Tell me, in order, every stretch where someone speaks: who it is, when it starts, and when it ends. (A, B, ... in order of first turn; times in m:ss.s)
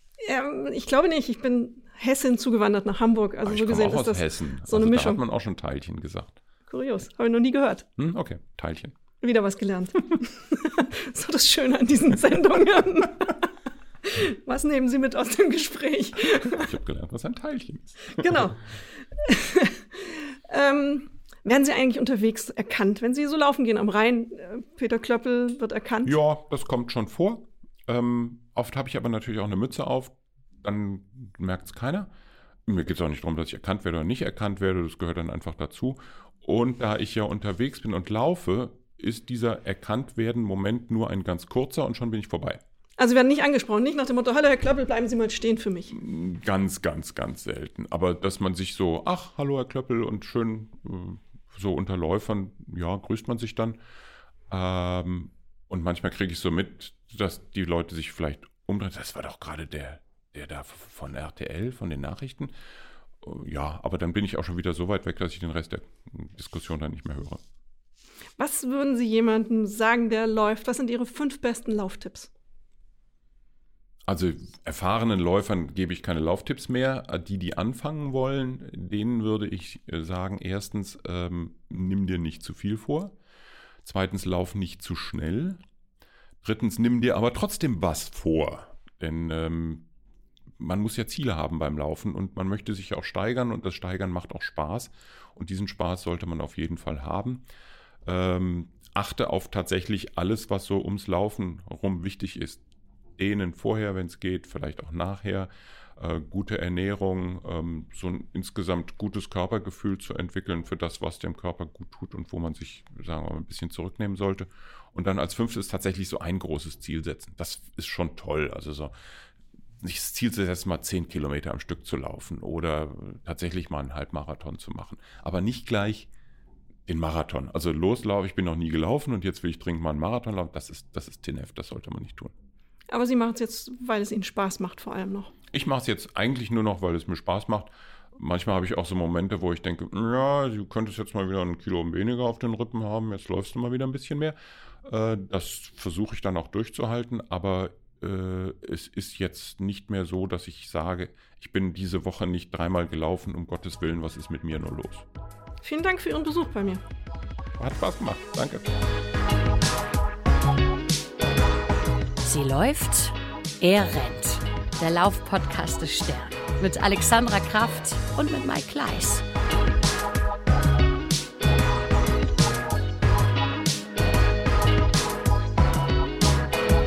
0:00.2-0:05.2 A
0:03.4-0:06.4 B
0:06.7-0:07.9 A
0:08.0-0:09.0 B
0:09.2-0:13.5 A
0:14.0-0:16.7 A
0:16.4-0:18.5 B
0:18.2-0:26.2 A
0:26.0-0:32.1 B
0:32.7-0:42.6 B
0:43.0-0:46.0 A
0:45.9-0:53.8 B
0:54.5-1:02.5 B
1:03.2-1:07.4 B
1:08.4-1:12.3 A
1:14.1-1:23.2 B
1:23.8-1:25.6 B
1:26.4-1:29.9 B
1:30.6-1:37.4 B
1:38.0-1:42.6 B
1:43.2-1:58.9 B
1:59.8-2:06.1 B
2:06.9-2:12.3 B
2:12.9-2:15.3 A
2:15.5-2:35.1 B
2:35.6-2:36.8 A
2:37.6-2:38.7 B
2:42.2-2:49.2 C